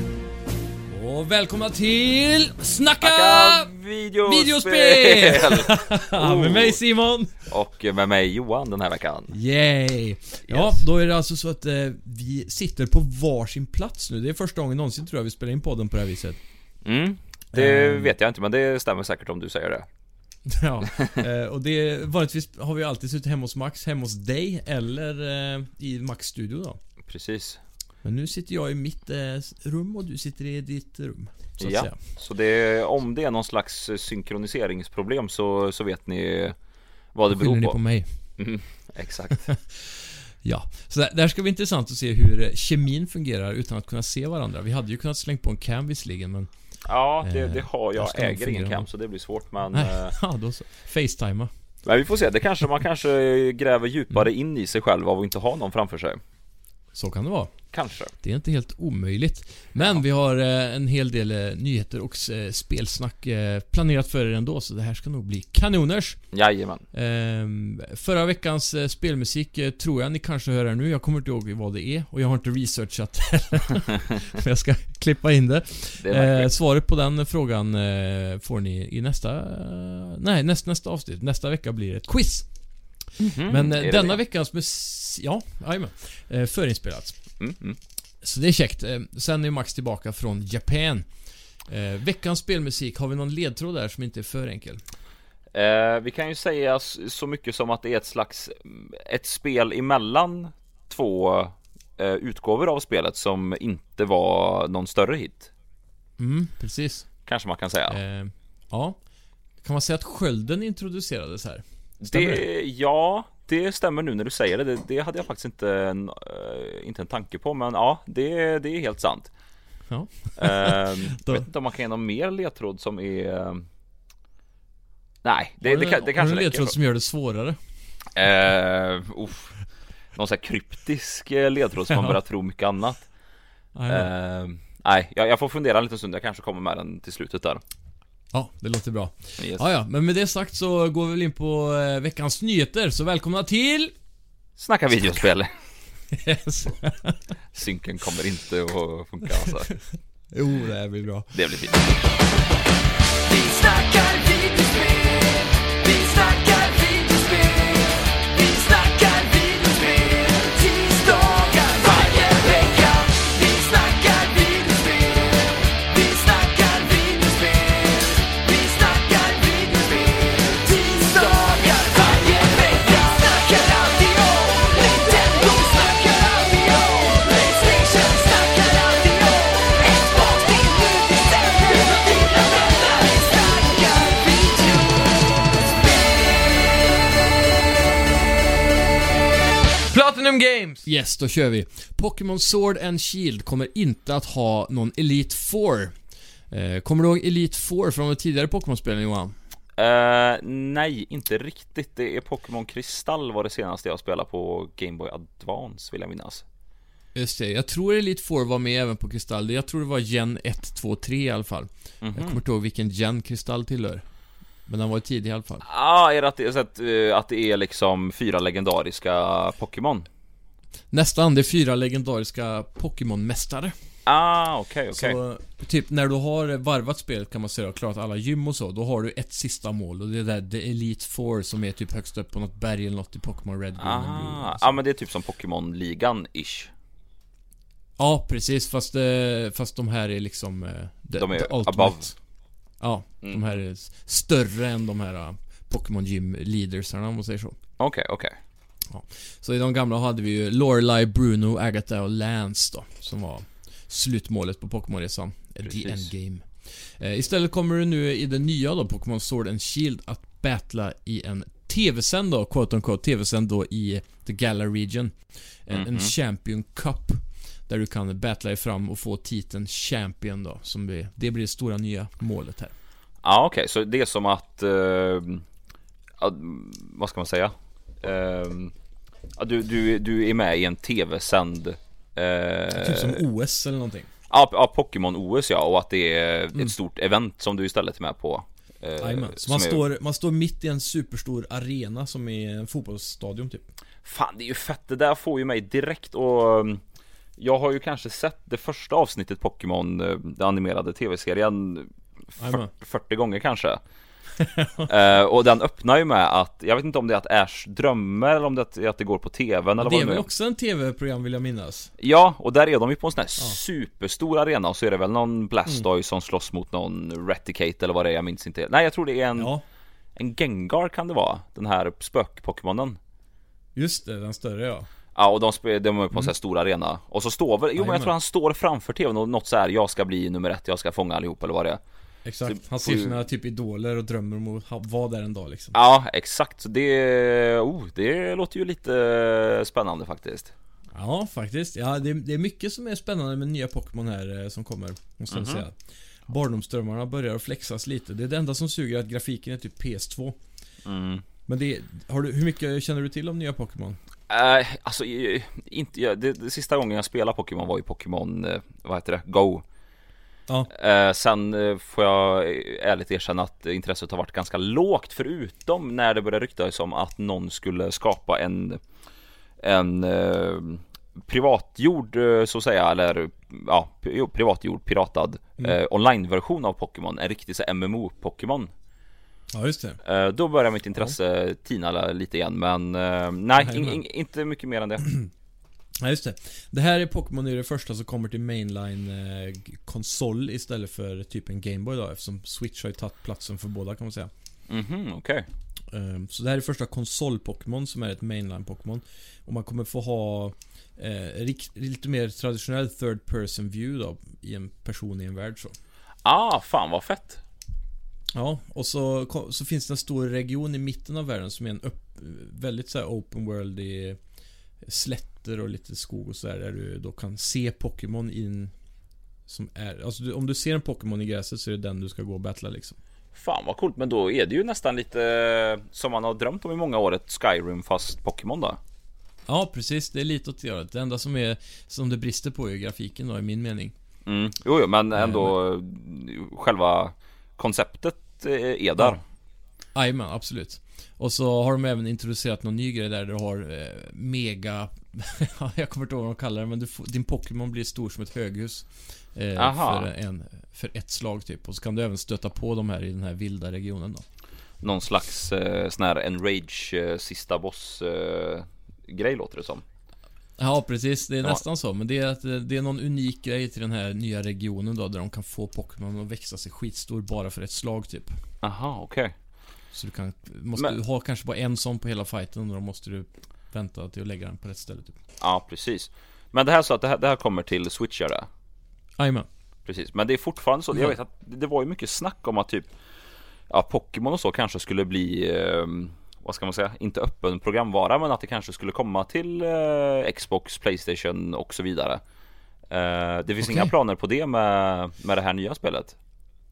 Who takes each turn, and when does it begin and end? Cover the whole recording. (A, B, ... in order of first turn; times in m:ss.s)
0:00.9-0:03.7 A
0:03.0-0:06.8 B
0:04.2-0:07.5 A
0:07.5-0:09.3 B
0:09.3-0:16.4 A
0:10.5-0:10.8 B
0:16.8-0:19.9 B
0:17.5-0:18.1 A
0:20.4-0:26.8 A
0:27.0-0:27.6 B
0:28.0-0:32.0 A
0:31.6-0:36.6 B
0:37.1-0:37.8 B
0:37.3-0:38.4 A
0:38.4-0:39.5 B
0:39.4-0:48.9 A
0:46.8-0:50.2 B
0:49.7-0:51.5 A
0:51.8-0:56.2 B
0:56.9-1:06.3 A
0:57.7-0:58.1 B
1:06.3-1:06.8 B
1:06.9-1:27.3 A
1:16.0-1:16.5 B
1:23.2-1:24.2 B
1:27.4-1:27.8 B
1:28.2-1:34.8 A
1:35.5-1:45.5 B
1:46.2-1:47.1 A
1:47.2-1:48.0 B
1:47.9-1:49.0 A
1:49.6-1:52.4 A
1:52.0-1:59.3 B
1:59.9-2:01.4 A
2:00.4-2:03.6 B
2:05.2-2:06.8 B
2:05.6-2:07.6 A
2:08.2-2:09.6 B
2:10.1-2:13.0 B
2:13.8-2:14.1 A
2:13.9-2:17.6 B
2:18.3-2:23.9 A
2:24.6-2:25.6 B
2:26.1-2:27.2 A
2:27.5-2:29.7 B
2:30.3-2:31.3 A
2:31.3-2:31.9 B
2:33.2-3:04.8 C
3:09.9-3:16.0 A
3:16.5-3:19.4 A
3:19.8-3:26.4 B
3:27.1-3:34.0 A
3:32.0-3:32.4 B
3:34.7-3:35.6 A
3:35.6-3:40.1 B
3:40.9-3:43.8 A
3:44.0-3:45.2 B
3:44.9-3:54.7 A
3:53.8-3:56.7 B
3:58.0-4:02.2 A
4:01.2-4:02.1 B
4:02.8-4:07.6 A
4:03.2-4:03.6 B
4:07.8-4:08.3 B
4:08.9-4:32.7 A
4:15.6-4:16.1 B
4:25.7-4:26.1 B
4:33.2-4:35.4 B
4:36.2-4:38.7 B
4:39.4-4:43.2 B
4:42.7-4:44.1 A
4:44.3-4:49.8 B
4:49.0-4:53.7 A
4:54.0-4:56.8 B
4:57.4-5:03.8 B
5:02.4-5:02.7 A
5:04.4-5:04.9 A
5:04.9-5:10.2 B
5:09.8-5:11.9 A
5:12.0-5:19.5 B
5:19.4-5:19.6 A
5:20.2-5:23.0 B
5:23.8-5:24.9 A
5:25.1-5:31.8 B
5:27.8-5:28.1 A
5:32.2-5:35.7 A
5:32.4-5:33.1 B
5:35.7-5:40.5 B
5:40.9-5:50.4 A
5:45.3-5:45.6 B
5:50.8-5:51.2 B
5:51.5-5:54.0 A
5:54.3-5:59.6 B
6:00.7-6:08.8 B
6:09.6-6:18.7 B
6:19.5-6:20.0 A
6:20.0-6:25.1 B
6:23.6-6:24.0 A
6:26.0-6:34.3 A
6:34.7-6:35.4 B
6:35.9-6:45.8 A
6:46.2-6:47.4 B
6:48.3-6:54.2 A
6:54.8-6:58.7 A
6:59.5-7:03.0 A
7:03.3-7:08.8 B
7:09.5-7:13.9 A
7:14.2-7:19.2 B
7:15.1-7:15.5 A
7:19.9-7:34.2 A
7:29.6-7:30.1 B
7:34.8-7:39.8 B
7:40.6-7:48.4 A
7:48.6-7:49.3 B
7:49.9-7:55.2 A
7:55.4-7:58.5 B
7:59.2-7:59.5 A
7:59.8-8:02.9 B
8:03.7-8:12.2 B
8:12.9-8:16.2 B
8:13.6-8:13.9 A